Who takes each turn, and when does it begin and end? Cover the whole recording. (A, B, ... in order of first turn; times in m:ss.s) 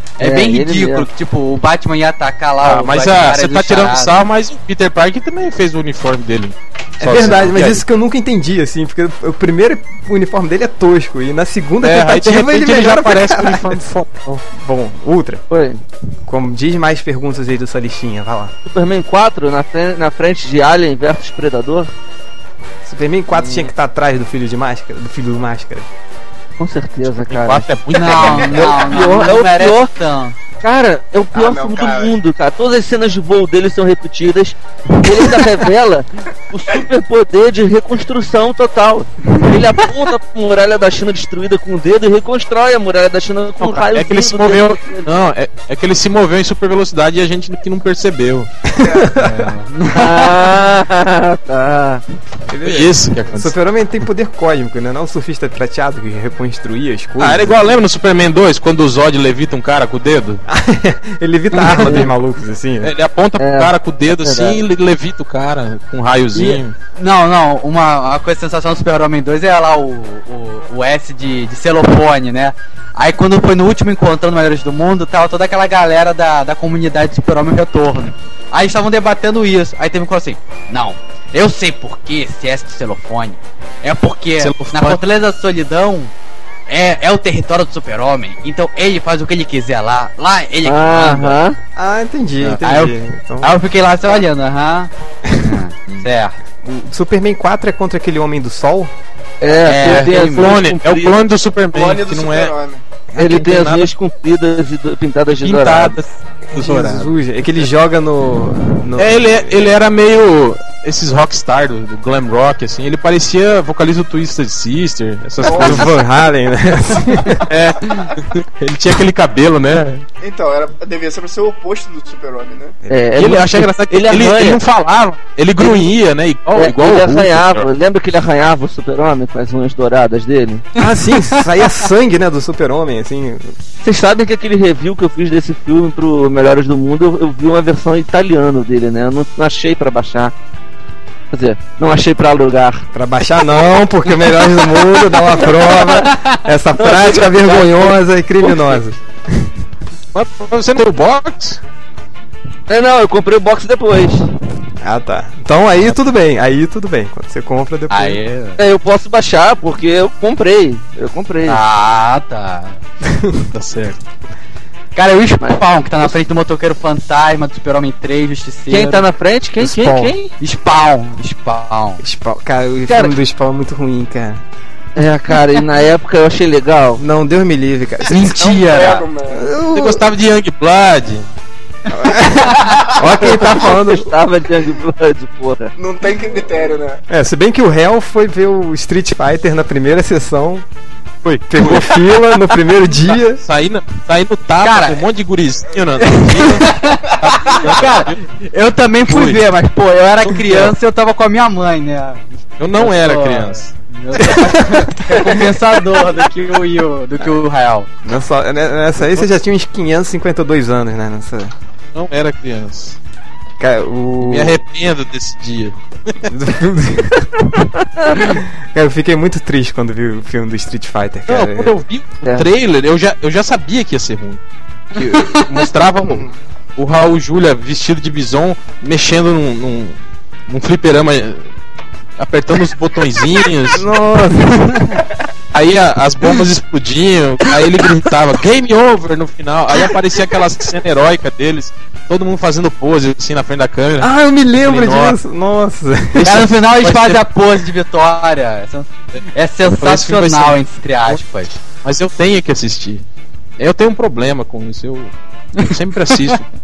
0:00.2-0:04.2 A
0:00.2-0:01.1 B
0:02.6-0:07.8 C
0:07.0-0:13.8 D
0:11.8-0:14.4 C
0:14.5-0:15.4 D
0:15.5-0:15.8 B
0:16.2-0:18.5 D
0:18.6-0:21.9 B
0:22.8-0:25.9 D
0:26.6-0:29.9 B
0:27.2-0:28.8 C
0:27.9-0:30.4 A
0:30.6-0:45.1 B
0:31.3-0:32.1 E
0:43.6-0:48.5 C
0:48.7-0:49.5 D
0:48.8-0:49.1 E
0:49.1-0:50.6 A
0:49.9-0:52.0 B
0:52.5-0:57.6 D
0:52.6-0:53.5 C
0:57.2-1:00.4 C
1:00.5-1:02.9 D
1:01.5-1:02.1 A
1:01.8-1:02.1 B
1:02.8-1:06.8 C
1:03.4-1:04.6 B
1:06.3-1:26.1 A
1:24.4-1:25.0 C
1:26.7-1:31.4 A
1:30.6-1:31.6 B
1:31.8-1:33.6 D
1:32.5-1:36.4 A
1:35.3-1:35.6 D
1:36.6-1:38.9 D
1:39.4-1:41.2 B
1:39.6-1:40.6 A
1:39.8-1:42.5 C
1:41.7-1:42.8 E
1:43.1-1:43.9 C
1:43.2-1:46.0 B
1:45.3-1:47.2 C
1:46.5-1:49.6 D
1:49.0-1:55.9 C
1:55.4-1:57.5 D
1:55.4-1:55.9 E
1:57.5-2:00.0 C
2:00.2-2:02.7 E
2:02.8-2:03.1 D
2:02.9-2:04.6 B
2:03.2-2:07.7 C
2:05.6-2:05.9 B
2:06.5-2:10.6 B
2:10.8-2:13.5 D
2:10.8-2:11.5 A
2:13.8-2:20.3 B
2:21.3-2:22.9 B
2:22.9-2:29.5 D
2:24.6-2:26.1 B
2:26.8-2:28.8 B
2:30.1-2:31.6 C
2:32.7-2:34.3 B
2:34.8-2:38.2 D
2:37.9-2:38.6 A
2:38.6-2:41.6 B
2:41.4-2:42.8 A
2:43.0-2:43.4 D
2:43.5-2:44.0 C
2:44.9-2:49.1 A
2:45.4-2:46.1 B
2:48.7-2:50.3 B
2:49.6-2:50.1 D
2:50.4-2:52.0 A
2:52.0-2:54.4 D
2:52.9-2:53.1 B
2:55.0-2:57.0 B
2:57.0-2:58.6 D
2:58.0-2:59.1 A
2:58.3-2:59.5 E
2:59.3-3:00.0 D
2:59.7-3:01.2 C
3:01.9-3:04.1 D
3:02.6-3:03.0 E
3:03.1-3:05.7 B
3:05.8-3:07.0 E
3:07.1-3:10.6 D
3:11.2-3:12.1 C
3:11.5-3:13.4 D
3:13.4-3:18.2 C
3:14.6-3:15.0 A
3:16.0-3:27.9 A
3:19.1-3:19.4 C
3:20.3-3:20.7 C
3:22.6-3:24.5 C
3:24.3-3:25.3 D
3:25.1-3:25.4 C
3:28.0-3:31.5 D
3:31.9-3:33.0 C
3:33.6-3:34.6 D
3:34.2-3:36.3 C
3:36.2-3:37.6 D
3:38.2-3:41.8 D
3:41.3-3:44.4 C
3:44.9-3:50.0 C
3:45.1-3:45.4 A
3:50.5-3:51.4 C
3:52.2-3:53.9 C
3:53.7-3:55.0 D
3:55.5-4:05.2 C
4:04.0-4:06.4 D
4:06.2-4:07.2 C
4:06.2-4:11.5 A
4:09.6-4:11.2 C
4:11.8-4:13.0 C
4:13.6-4:16.5 C